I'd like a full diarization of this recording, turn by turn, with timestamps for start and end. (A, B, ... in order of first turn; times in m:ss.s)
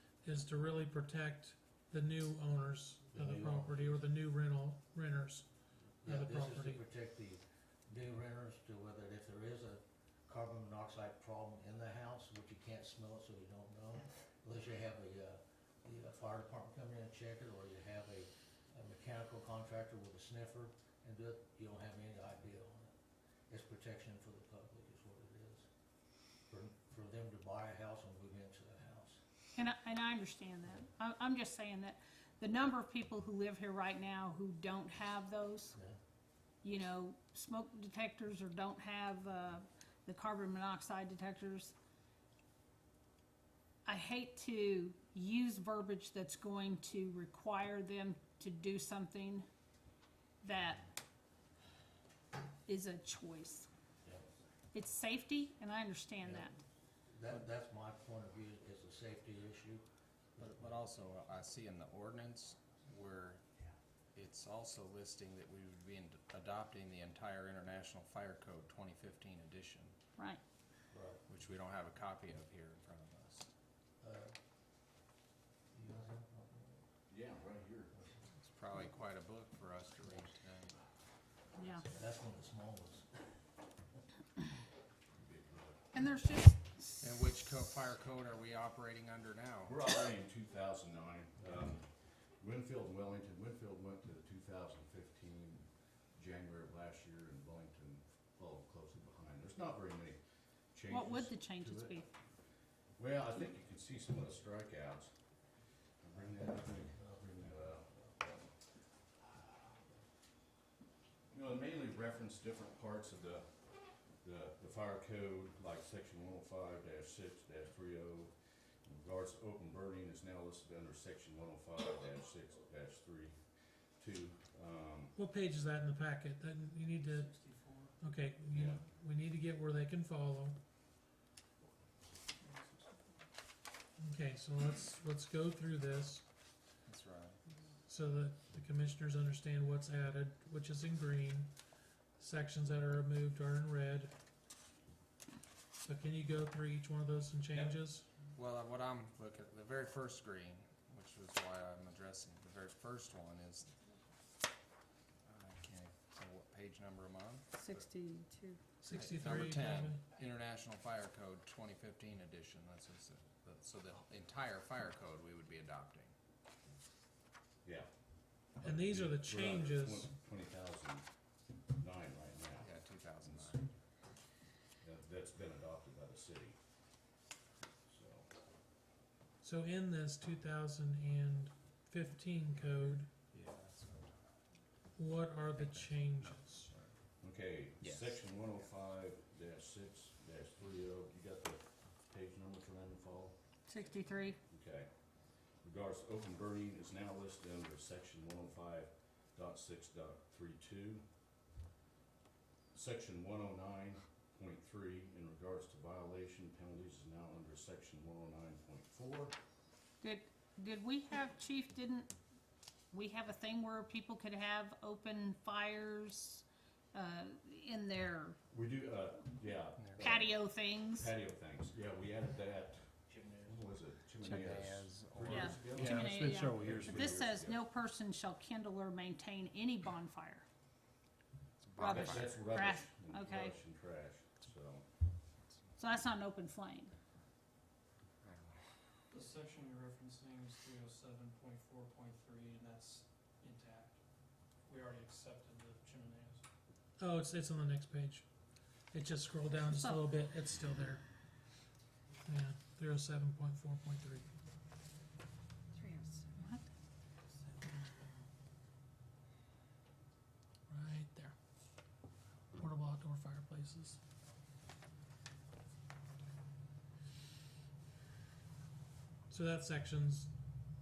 0:00.2-0:05.5 A
0:03.1-0:04.0 B
0:06.0-0:22.9 B
0:06.0-0:06.8 A
0:23.5-0:25.7 B
0:26.5-0:29.2 B
0:29.6-0:35.8 C
0:36.6-0:41.7 C
0:43.9-0:49.5 C
0:50.4-0:50.9 C
0:52.7-0:53.7 C
0:54.7-0:56.6 C
0:57.1-0:59.8 B
1:00.4-1:00.8 B
1:00.4-1:03.4 D
1:04.1-1:10.0 D
1:10.9-1:11.2 B
1:11.3-1:13.5 D
1:14.0-1:14.3 B
1:15.7-1:16.8 B
1:17.1-1:17.9 E
1:18.4-1:20.8 D
1:21.5-1:21.9 C
1:21.9-1:23.1 B
1:25.1-1:25.9 E
1:25.9-1:27.0 C
1:27.0-1:29.8 D
1:29.7-1:40.2 E
1:40.7-1:42.0 E
1:40.9-1:42.1 C
1:43.0-1:45.1 E
1:46.0-1:48.5 E
1:46.2-1:48.2 B
1:51.3-2:05.2 E
2:05.2-2:07.3 A
2:07.4-2:07.7 F
2:08.0-2:10.6 A
2:08.5-2:08.8 E
2:12.4-2:12.9 F
2:14.0-2:16.2 A
2:16.8-2:17.4 D
2:17.9-2:21.6 A
2:22.2-2:24.1 A
2:25.8-2:28.1 A
2:28.4-2:33.7 D
2:35.2-2:37.9 D
2:37.6-2:38.6 C
2:38.8-2:40.0 A
2:38.9-2:46.1 D
2:47.6-2:51.1 E
2:48.6-2:50.1 A
2:51.7-2:53.7 E
2:52.6-2:53.7 D
2:54.8-2:56.6 E
2:57.9-2:58.3 E
2:59.4-3:03.1 A
3:03.3-3:04.2 D
3:05.0-3:06.7 A
3:05.5-3:07.0 D
3:07.2-3:13.4 E
3:07.8-3:08.2 D
3:13.6-3:14.4 C
3:14.5-3:21.0 E
3:22.7-3:29.4 E
3:30.0-3:32.1 C
3:32.9-3:38.4 C
3:38.5-3:47.6 E
3:39.8-3:40.1 D
3:40.0-3:41.1 C
3:43.1-3:43.6 B
3:44.2-3:47.0 D
3:45.2-3:50.4 C
3:51.6-3:52.4 D
3:51.8-3:53.6 C
3:51.8-3:54.8 E
3:55.8-3:56.9 C
3:58.2-3:58.6 D
3:59.1-4:04.0 F
4:04.6-4:06.4 F
4:07.0-4:08.3 A
4:08.9-4:11.0 A
4:09.5-4:10.2 C
4:12.3-4:14.3 A
4:15.8-4:16.7 C
4:20.7-4:21.4 A
4:22.5-4:24.0 A
4:29.3-4:30.4 A